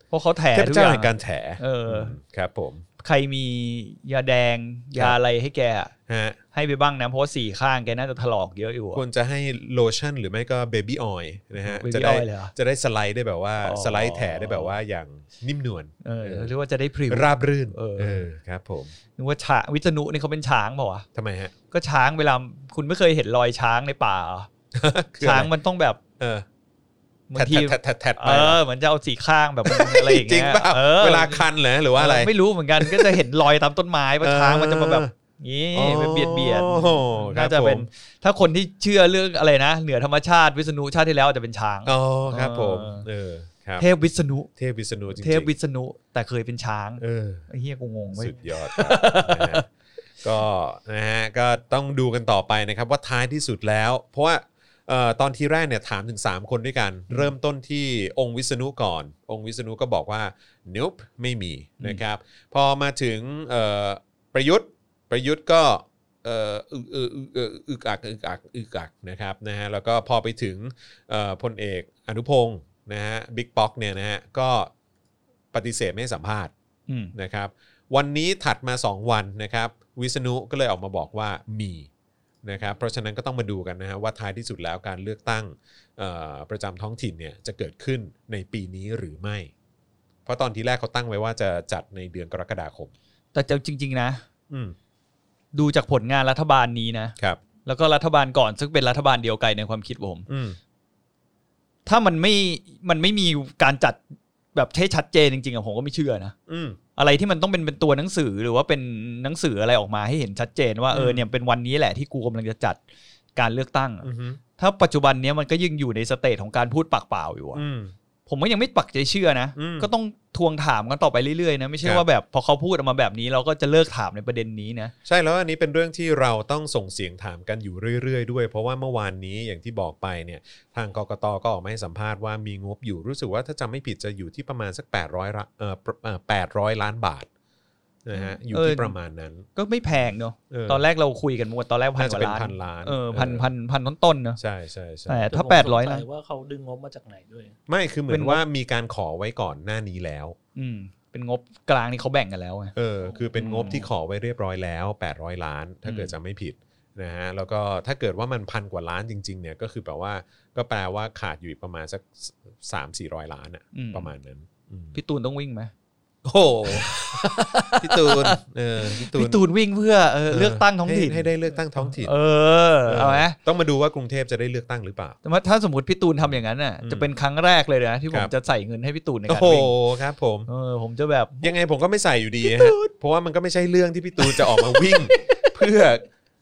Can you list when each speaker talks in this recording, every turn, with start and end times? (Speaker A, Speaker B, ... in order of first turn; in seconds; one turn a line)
Speaker A: 0.1-2.1
Speaker B: 0.5-2.8
Speaker A: 3.0-5.9
Speaker B: 6.1-6.4
Speaker A: 6.5-9.0
Speaker B: 8.9-16.5
Speaker A: 11.6-12.5
Speaker A: 13.6-14.7
Speaker A: 16.0-18.2
Speaker B: 17.1-18.9
Speaker A: 19.2-21.1
Speaker B: 21.1-21.5
Speaker A: 21.7-24.5
Speaker B: 24.7-25.5
Speaker A: 25.2-26.0
Speaker B: 26.2-26.4
Speaker A: 27.3-43.0
Speaker B: 27.3-28.6
Speaker B: 29.6-33.2
Speaker B: 34.2-35.1
Speaker B: 35.7-37.9
Speaker B: 41.9-43.9
Speaker A: 43.8-44.5
Speaker B: 44.5-45.5
Speaker A: 45.1-49.6
Speaker B: 47.0-47.5
Speaker B: 48.1-49.6
Speaker B: 50.2-74.7
Speaker B: 75.5-76.5
Speaker A: 76.9-77.1
Speaker B: 77.1-81.9
Speaker B: 82.4-89.5
Speaker B: 90.2-92.9
Speaker A: 93.3-94.2
Speaker B: 94.5-94.8
Speaker A: 95.5-100.3
Speaker B: 100.3-100.6
Speaker A: 101.8-104.0
Speaker A: 104.5-106.3
Speaker B: 106.5-106.8
Speaker A: 107.0-112.8
Speaker B: 110.9-111.2
Speaker A: 113.3-114.1
Speaker B: 114.0-114.4
Speaker A: 114.6-117.6
Speaker B: 117.5-117.9
Speaker A: 118.3-124.9
Speaker B: 119.5-119.9
Speaker B: 125.0-137.3
Speaker B: 138.0-139.5
Speaker A: 138.1-138.9
Speaker A: 139.5-144.4
Speaker B: 140.5-140.8
Speaker B: 141.9-143.5
Speaker B: 144.4-145.2
Speaker A: 145.1-146.0
Speaker C: 145.3-147.6
Speaker B: 147.7-150.3
Speaker A: 148.1-148.4
Speaker A: 150.6-152.7
Speaker B: 152.8-164.9
Speaker C: 153.1-153.8
Speaker A: 153.4-153.7
Speaker A: 155.8-156.1
Speaker A: 163.7-164.1
Speaker A: 164.9-165.7
Speaker B: 166.2-169.4
Speaker A: 166.7-173.4
Speaker B: 170.3-172.1
Speaker B: 172.8-175.2
Speaker A: 175.2-179.7
Speaker B: 176.8-177.1
Speaker B: 179.3-180.5
Speaker A: 180.5-181.5
Speaker B: 181.4-186.0
Speaker A: 182.4-182.9
Speaker A: 184.2-185.7